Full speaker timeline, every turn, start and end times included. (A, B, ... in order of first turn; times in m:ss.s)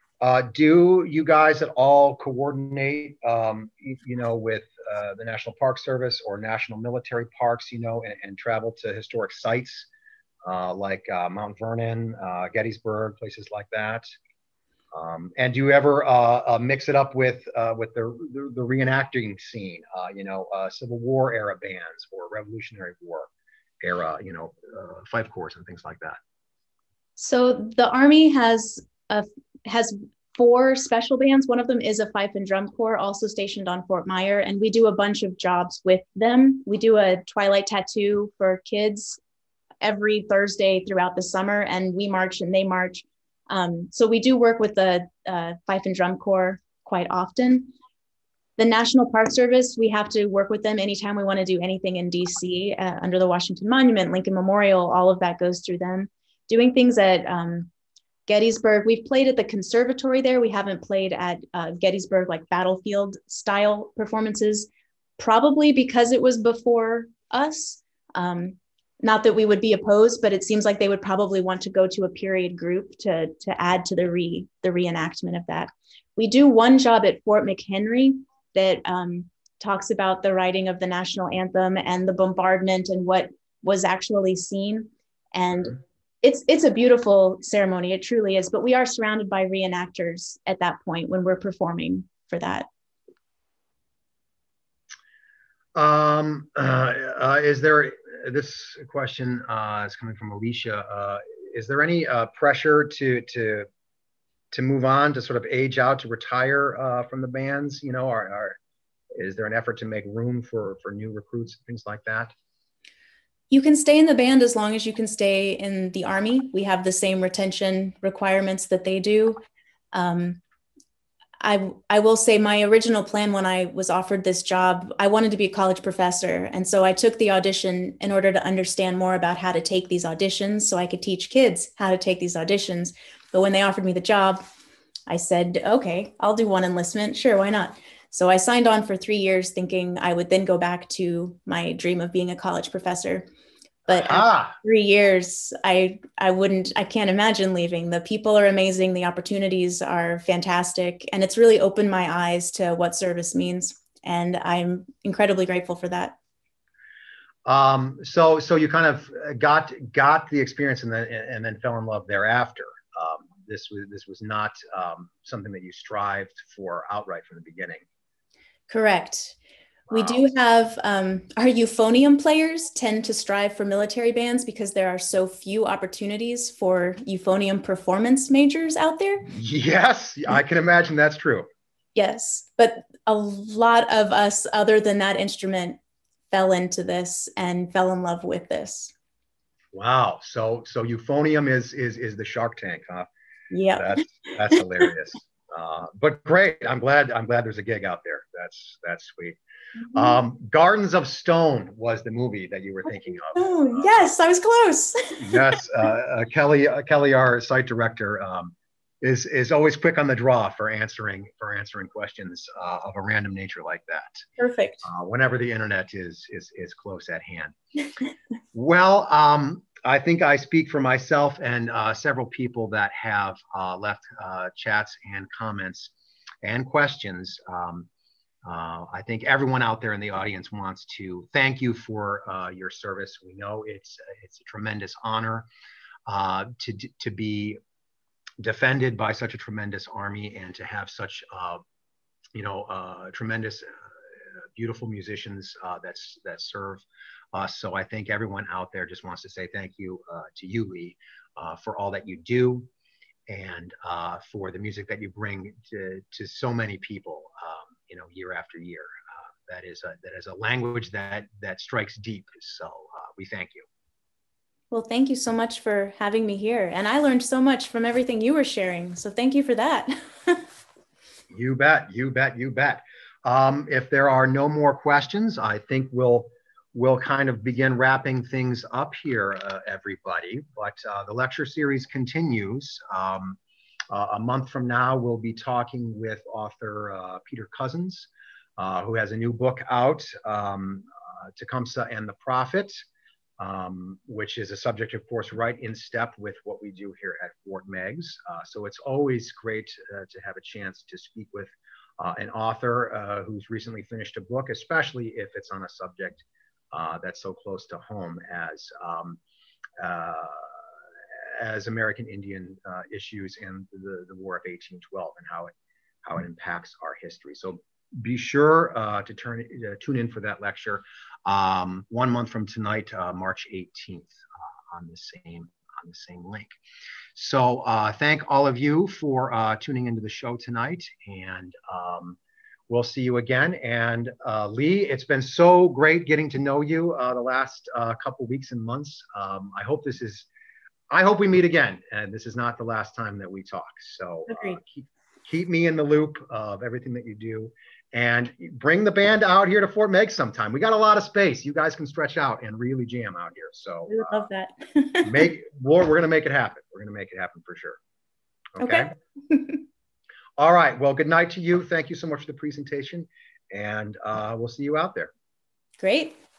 0:00.2-0:09.9 A
0:10.4-0:14.1 A
0:14.9-0:23.3 A
0:23.8-0:26.2 A
0:27.2-0:39.2 B
0:39.8-0:47.7 B
0:48.6-0:57.7 B
0:58.3-1:32.7 B
1:35.8-1:43.7 A
1:44.5-1:48.6 A
1:49.2-1:52.3 A
1:53.5-1:59.4 B
1:59.9-2:00.4 B
2:01.4-2:14.4 B
2:15.1-2:23.3 B
2:23.9-2:24.6 A
2:23.9-2:36.2 B
2:37.4-2:47.8 A
2:48.7-2:49.4 B
2:49.9-2:50.2 A
2:49.9-2:59.3 B
2:59.3-3:01.5 A
3:02.0-3:05.8 B
3:06.3-3:08.9 B
3:09.7-3:13.1 A
3:13.5-3:14.0 B
3:13.8-3:19.4 A
3:19.9-3:23.9 A
3:23.3-3:25.6 B
3:25.2-3:34.2 A
3:34.4-3:34.9 B
3:34.8-3:37.6 A
3:38.5-3:45.9 A
3:46.4-3:47.9 A
3:48.4-3:55.5 A
3:56.1-3:57.6 A
3:58.4-4:01.6 A
4:02.3-4:12.7 A
4:13.3-4:23.7 A
4:24.7-4:30.4 B
4:31.3-4:43.4 A
4:43.9-4:52.8 A
4:53.4-5:09.2 A
5:09.8-5:15.5 A
5:16.0-5:26.6 A
5:27.2-5:32.2 A
5:32.7-5:40.3 A
5:40.9-5:54.2 A
5:44.3-5:44.6 B
5:53.9-5:55.3 B
5:55.0-5:57.8 A
5:58.6-5:58.9 A
5:58.6-5:59.6 B
6:00.4-6:05.1 A
6:05.8-6:06.2 B